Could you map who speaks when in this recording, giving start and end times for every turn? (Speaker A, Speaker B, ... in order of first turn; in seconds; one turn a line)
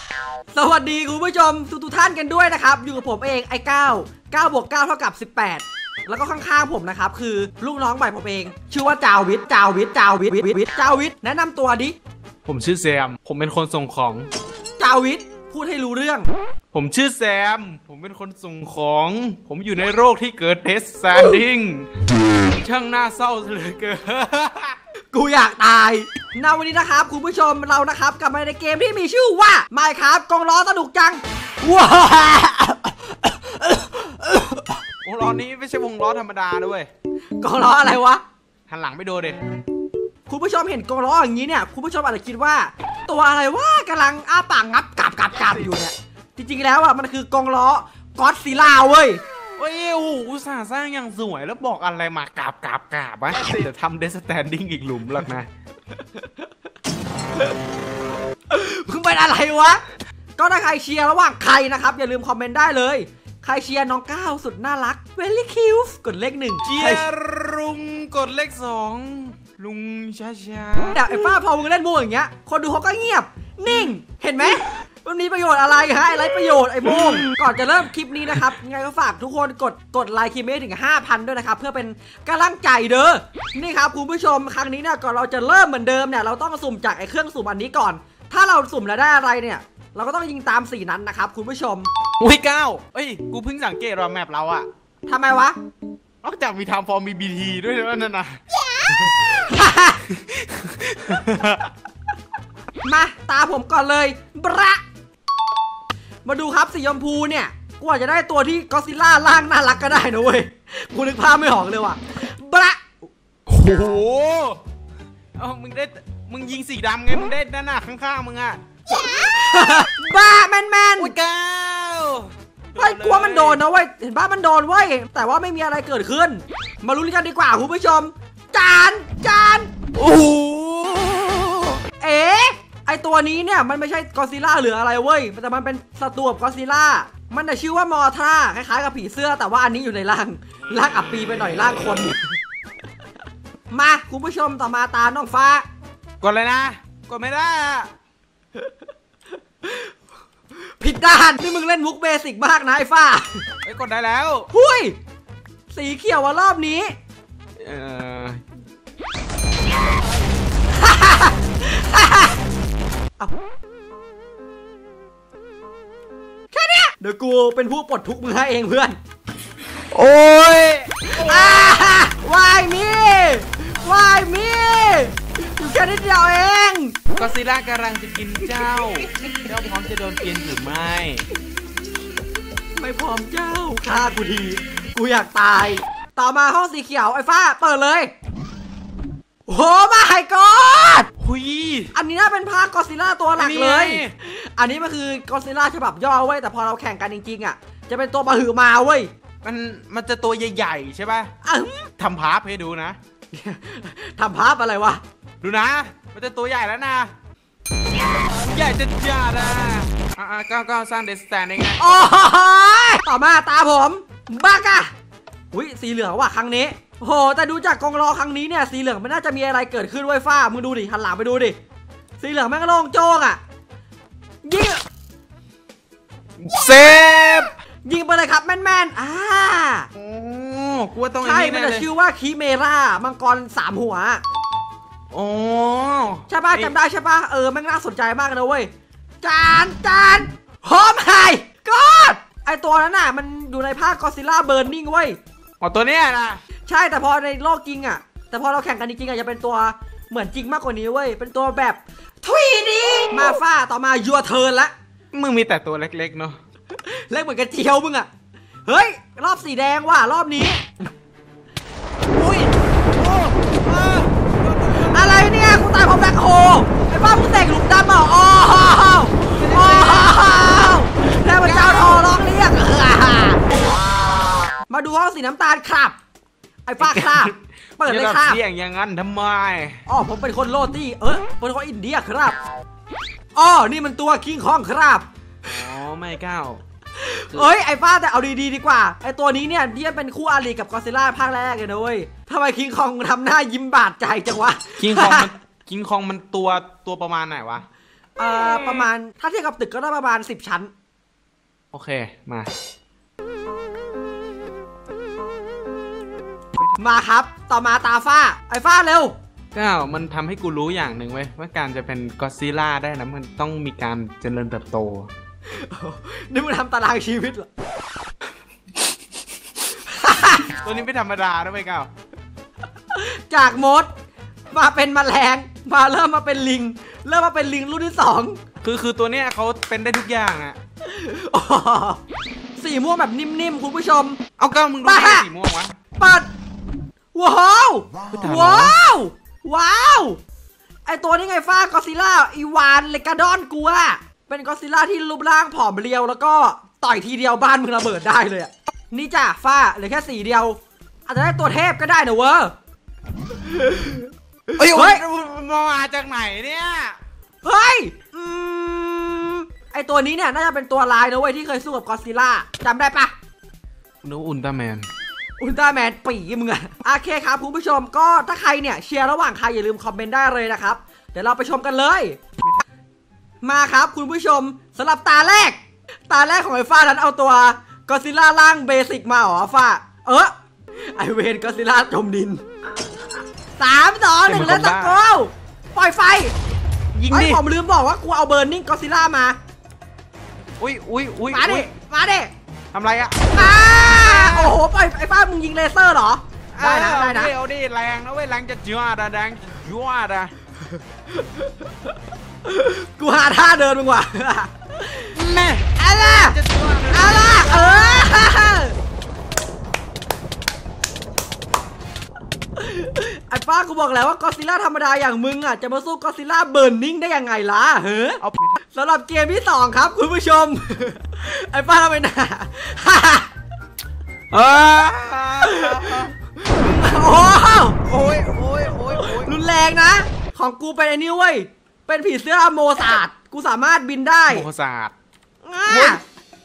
Speaker A: 0.5-11.9
Speaker B: 12.4-14.3
Speaker A: 14.8-16.3
Speaker B: 16.7-21.9
Speaker B: 22.5-24.8
Speaker A: 25.1-34.8
Speaker B: 35.0-36.9
Speaker A: 37.4-38.2
Speaker B: 38.7-39.4
Speaker A: 40.3-49.2
Speaker B: 45.4-45.7
Speaker B: 49.6-55.5
Speaker A: 58.5-59.8
Speaker A: 60.4-67.1
Speaker B: 66.6-71.1
Speaker A: 70.9-91.9
Speaker B: 92.2-94.7
Speaker A: 95.1-95.5
Speaker B: 96.2-99.2
Speaker A: 98.8-100.0
Speaker B: 100.1-101.7
Speaker A: 102.8-104.8
Speaker A: 106.2-113.0
Speaker B: 113.5-114.6
Speaker B: 115.3-118.6
Speaker A: 118.9-121.1
Speaker B: 121.0-123.6
Speaker A: 122.8-129.7
Speaker B: 129.9-131.8
Speaker A: 132.0-142.3
Speaker A: 143.7-145.6
Speaker B: 146.2-147.9
Speaker A: 149.6-149.9
Speaker A: 150.8-153.5
Speaker B: 153.6-154.5
Speaker A: 154.5-155.0
Speaker A: 155.7-156.9
Speaker B: 157.6-158.4
Speaker A: 160.7-162.4
Speaker A: 166.5-169.0
Speaker B: 169.9-171.9
Speaker A: 171.1-177.0
Speaker B: 177.2-181.2
Speaker A: 182.8-188.1
Speaker A: 189.5-191.1
Speaker B: 191.2-191.9
Speaker A: 191.9-199.1
Speaker B: 193.3-194.1
Speaker B: 199.4-201.3
Speaker A: 201.4-201.9
Speaker B: 202.0-203.0
Speaker A: 203.3-205.0
Speaker B: 205.4-207.1
Speaker B: 208.2-212.2
Speaker A: 211.8-214.9
Speaker A: 215.5-221.6
Speaker A: 222.2-223.4
Speaker A: 224.4-224.8
Speaker B: 226.4-227.5
Speaker A: 227.8-229.9
Speaker B: 229.9-231.9
Speaker A: 231.2-234.2
Speaker B: 235.1-236.7
Speaker A: 236.3-238.7
Speaker A: 239.2-245.2
Speaker B: 245.6-246.4
Speaker A: 246.7-254.7
Speaker B: 252.8-253.3
Speaker B: 255.1-256.4
Speaker A: 256.7-258.1
Speaker A: 258.6-260.9
Speaker B: 262.1-265.5
Speaker A: 264.7-273.5
Speaker B: 269.3-270.5
Speaker B: 271.3-272.1
Speaker A: 274.7-275.9
Speaker A: 276.6-278.4
Speaker B: 276.8-279.8
Speaker A: 279.9-282.4
Speaker A: 283.3-285.0
Speaker B: 285.4-286.6
Speaker A: 287.0-295.3
Speaker B: 294.8-297.7
Speaker A: 298.2-300.7
Speaker B: 301.7-302.5
Speaker A: 306.8-309.1
Speaker B: 309.5-315.1
Speaker A: 315.5-317.5
Speaker A: 319.8-320.5
Speaker B: 320.5-321.9
Speaker A: 322.9-323.9
Speaker A: 324.5-328.4
Speaker B: 328.6-330.6
Speaker A: 330.8-332.0
Speaker A: 332.6-334.2
Speaker B: 334.4-335.8
Speaker A: 334.8-335.3
Speaker A: 336.0-336.3
Speaker A: 337.1-340.2
Speaker B: 338.1-338.8
Speaker A: 340.9-352.5
Speaker A: 353.4-355.0
Speaker B: 354.6-357.0
Speaker A: 357.4-363.1
Speaker B: 364.0-364.9
Speaker A: 365.4-372.2
Speaker A: 373.4-375.6
Speaker A: 376.1-382.4
Speaker A: 383.6-386.3
Speaker B: 384.2-385.0
Speaker B: 386.9-387.4
Speaker A: 387.1-389.4
Speaker B: 390.6-391.7
Speaker A: 391.3-392.3
Speaker B: 392.7-394.6
Speaker A: 393.3-397.3
Speaker B: 396.5-400.3
Speaker A: 401.2-401.5
Speaker A: 402.4-405.2
Speaker B: 405.1-408.3
Speaker A: 405.8-406.4
Speaker A: 406.9-408.8
Speaker A: 412.6-423.3
Speaker B: 418.2-418.6
Speaker B: 424.3-426.1
Speaker A: 425.4-427.8
Speaker B: 427.8-429.3
Speaker A: 428.9-434.5
Speaker B: 434.3-434.9
Speaker A: 435.4-436.0
Speaker B: 435.6-436.0